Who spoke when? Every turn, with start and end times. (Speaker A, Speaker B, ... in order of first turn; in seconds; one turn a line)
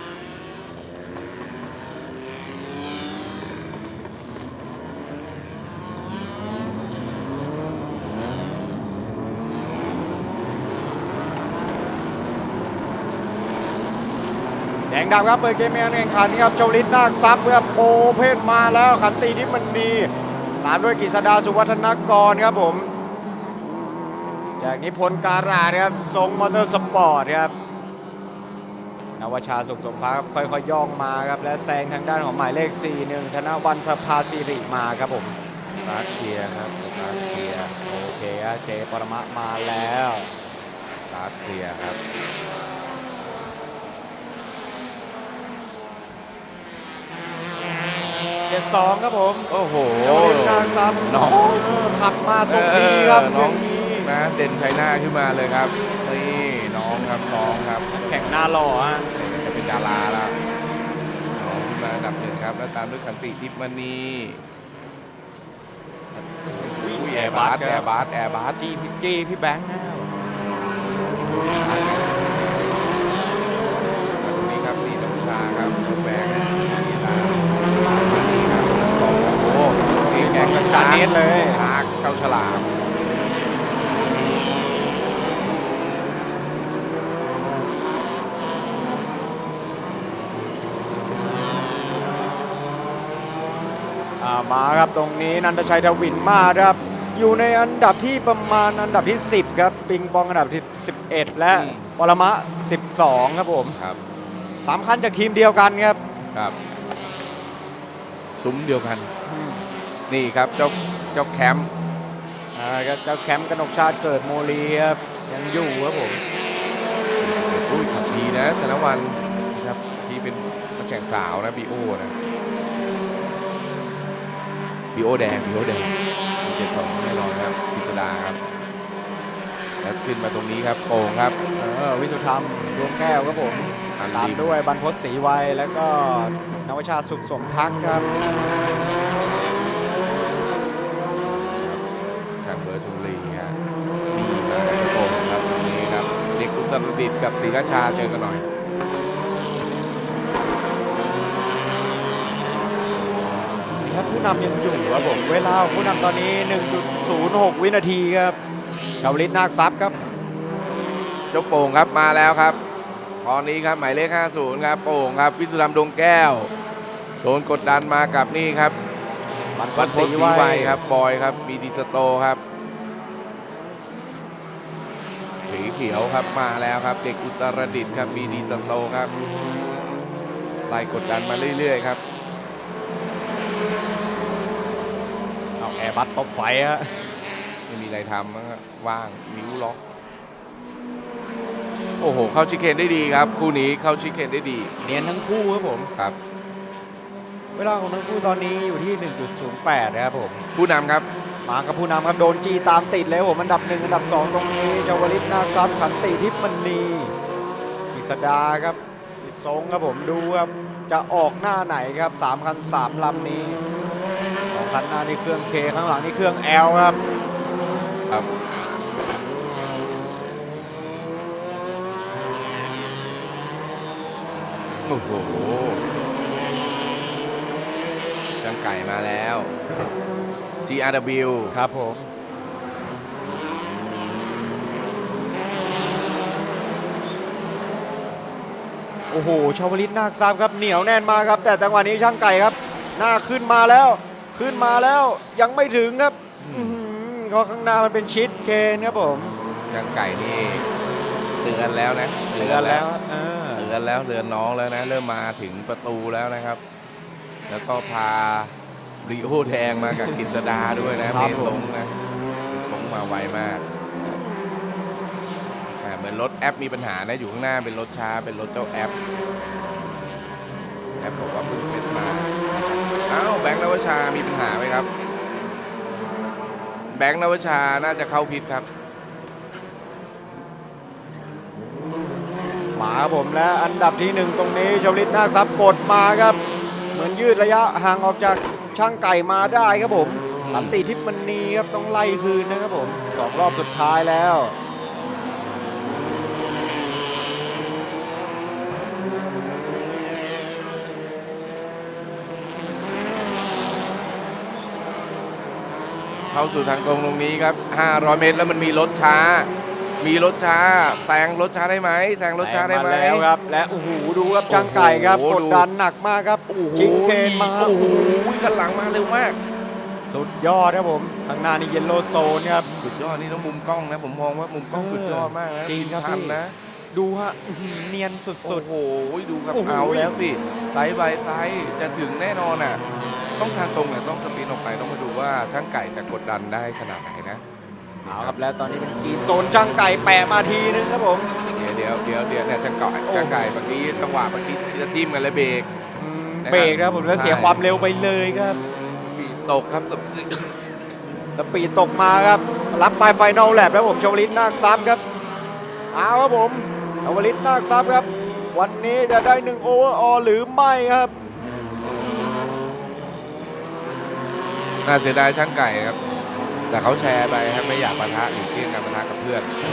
Speaker A: 14.9-22.9
Speaker A: 24.6-27.6
Speaker A: 29.2-35.4
Speaker B: 35.8-37.8
Speaker A: 37.9-40.3
Speaker B: 41.1-42.0
Speaker A: 48.5-49.5
Speaker B: 49.5-51.8
Speaker A: 50.0-54.1
Speaker B: 52.5-57.9
Speaker A: 57.9-59.4
Speaker B: 59.3-60.4
Speaker B: 61.4-64.4
Speaker A: 66.2-67.9
Speaker B: 66.5-68.6
Speaker A: 68.6-70.1
Speaker B: 71.3-72.0
Speaker A: 71.6-72.0
Speaker B: 74.2-82.7
Speaker A: 80.1-81.6
Speaker A: 94.2-103.8
Speaker B: 101.5-101.9
Speaker B: 103.7-104.0
Speaker A: 104.6-106.0
Speaker B: 108.4-109.1
Speaker A: 109.3-109.7
Speaker B: 110.1-111.7
Speaker A: 112.5-116.2
Speaker B: 117.2-122.2
Speaker B: 124.9-128.4
Speaker B: 129.8-131.4
Speaker A: 131.6-138.1
Speaker B: 134.0-134.5
Speaker B: 141.2-141.8
Speaker B: 142.4-143.6
Speaker B: 144.1-148.4
Speaker A: 153.5-158.4
Speaker A: 159.0-160.0
Speaker B: 161.3-162.6
Speaker B: 163.2-166.5
Speaker B: 167.2-168.8
Speaker A: 169.6-170.8
Speaker B: 169.7-172.4
Speaker B: 175.5-179.1
Speaker B: 180.7-182.0
Speaker A: 185.6-187.1
Speaker B: 187.7-189.8
Speaker B: 192.0-194.7
Speaker A: 194.8-195.9
Speaker A: 197.6-200.4
Speaker B: 200.6-201.1
Speaker A: 201.4-207.2
Speaker A: 207.9-213.6
Speaker A: 214.5-217.0
Speaker B: 224.8-225.8
Speaker B: 228.4-229.5
Speaker B: 230.7-231.6
Speaker A: 231.5-232.1
Speaker A: 239.1-249.4
Speaker B: 246.4-246.8
Speaker B: 249.7-250.7
Speaker B: 251.4-252.9
Speaker A: 252.3-253.7
Speaker B: 253.6-256.6
Speaker B: 257.5-261.9
Speaker A: 261.1-261.6
Speaker B: 262.5-263.6
Speaker B: 265.7-268.9
Speaker B: 271.0-274.9
Speaker B: 276.9-278.7
Speaker A: 282.8-286.4
Speaker A: 286.9-294.6
Speaker B: 290.4-290.8
Speaker B: 306.3-309.5
Speaker B: 310.0-313.3
Speaker A: 312.4-318.0
Speaker B: 314.5-315.7
Speaker B: 316.5-319.4
Speaker A: 320.1-322.7
Speaker B: 322.8-326.6
Speaker A: 324.7-326.4
Speaker A: 326.9-328.7
Speaker B: 328.4-332.8
Speaker A: 329.5-330.2
Speaker B: 333.4-337.4
Speaker B: 338.0-338.4
Speaker A: 338.1-341.3
Speaker B: 341.5-345.7
Speaker A: 343.1-343.4
Speaker A: 346.0-348.6
Speaker B: 346.4-347.6
Speaker B: 348.9-350.8
Speaker A: 351.4-355.0
Speaker A: 355.9-361.2
Speaker B: 364.9-366.0
Speaker B: 366.7-369.5